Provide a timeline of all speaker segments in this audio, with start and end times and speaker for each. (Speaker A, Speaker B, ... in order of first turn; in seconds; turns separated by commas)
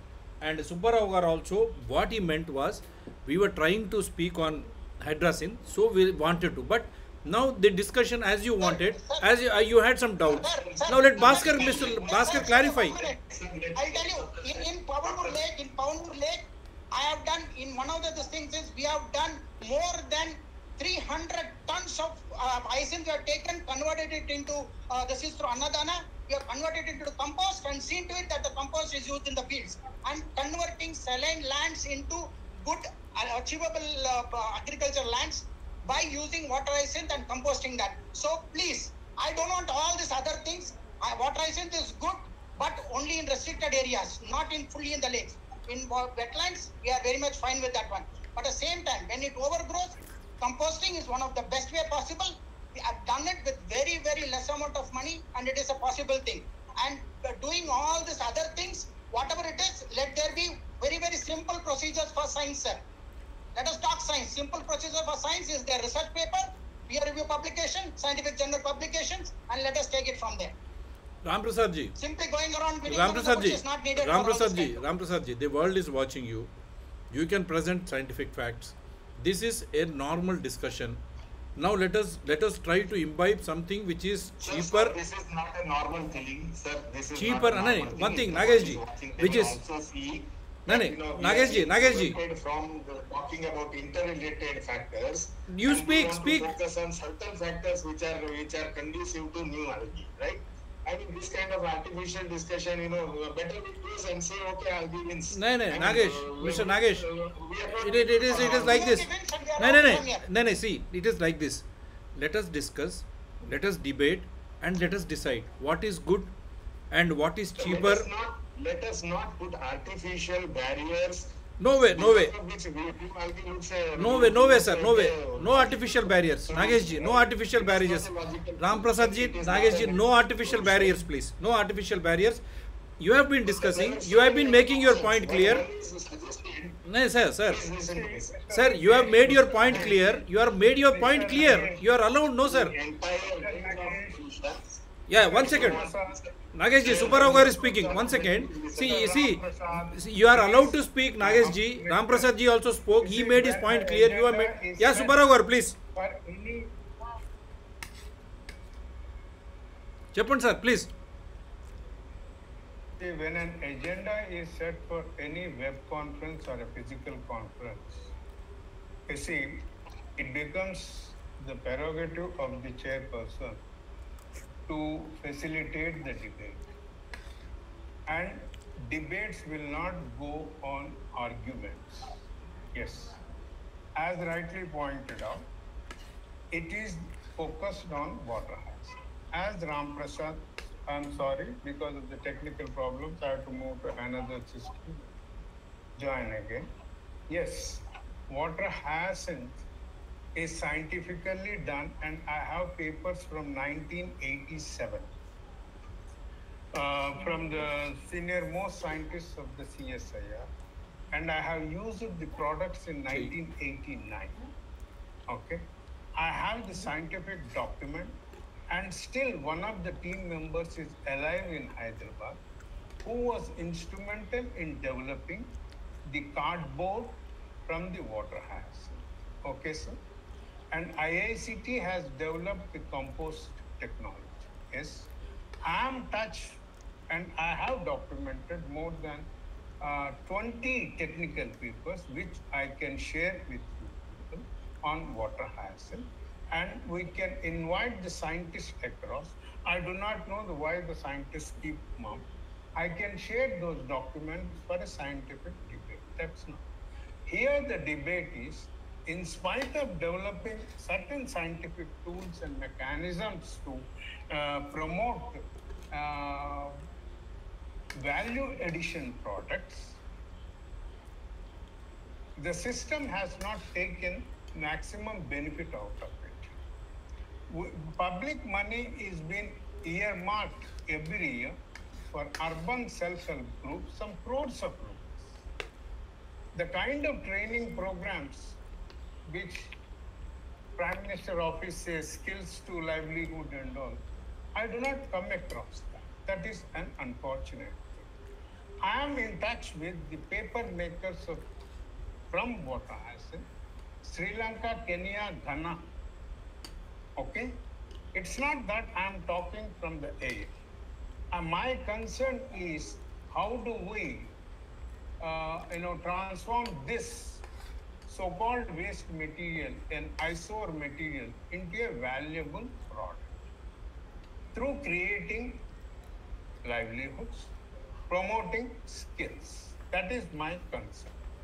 Speaker A: 0.4-13.0, Speaker B: 8.6-9.3, Speaker B: 10.2-13.2, Speaker C: 10.6-15.4, Speaker B: 13.8-62.8, Speaker B: 63.5-70.5, Speaker A: 71.2-71.9, Speaker B: 72.0-74.8, Speaker A: 72.8-76.5, Speaker A: 77.1-81.0, Speaker A: 81.5-85.0, Speaker C: 84.4-109.0, Speaker A: 87.1-89.6, Speaker A: 90.7-92.2, Speaker A: 95.5-96.5, Speaker A: 105.3-107.1, Speaker A: 107.8-109.1, Speaker B: 108.3-110.2, Speaker A: 109.6-111.6, Speaker A: 112.2-116.3, Speaker A: 116.9-118.1, Speaker C: 117.6-131.0, Speaker A: 121.6-122.3, Speaker A: 124.0-128.1, Speaker A: 128.6-132.4, Speaker A: 133.0-135.6, Speaker C: 133.5-136.8, Speaker A: 136.9-137.6, Speaker C: 137.4-140.0, Speaker D: 137.9-140.1, Speaker A: 138.5-142.7, Speaker D: 140.9-141.8, Speaker C: 142.4-144.7, Speaker D: 143.2-144.2, Speaker A: 145.1-145.8, Speaker D: 145.2-146.2, Speaker C: 145.3-149.2, Speaker A: 146.5-155.8, Speaker D: 146.9-147.5, Speaker D: 148.7-152.3, Speaker D: 153.0-155.3, Speaker D: 155.9-156.8, Speaker A: 160.1-160.9, Speaker D: 163.0-168.1, Speaker D: 169.1-173.6, Speaker D: 174.7-176.7, Speaker D: 178.1-182.2, Speaker D: 182.7-183.2, Speaker D: 183.9-185.4, Speaker D: 186.5-195.1, Speaker D: 196.0-196.7, Speaker D: 197.3-199.6, Speaker D: 200.3-205.1, Speaker D: 206.7-210.5, Speaker D: 211.1-214.4, Speaker D: 215.3-218.2, Speaker D: 218.7-222.4, Speaker D: 223.0-225.5, Speaker D: 226.1-230.0, Speaker D: 230.7-235.1, Speaker D: 235.6-236.6, Speaker D: 237.1-239.3, Speaker D: 239.8-256.6, Speaker D: 257.3-266.8, Speaker D: 267.9-270.0, Speaker D: 272.4-276.5, Speaker D: 277.5-281.6, Speaker D: 282.1-285.3, Speaker D: 286.5-288.6, Speaker D: 289.3-289.7, Speaker D: 290.8-294.0, Speaker D: 294.5-298.1, Speaker D: 298.8-301.5, Speaker D: 302.3-303.4, Speaker D: 304.0-305.9, Speaker D: 307.2-307.6, Speaker D: 308.1-310.5, Speaker D: 311.3-314.4, Speaker D: 315.2-317.4, Speaker D: 318.1-323.3, Speaker D: 324.5-325.6, Speaker D: 326.6-327.5, Speaker D: 328.1-331.2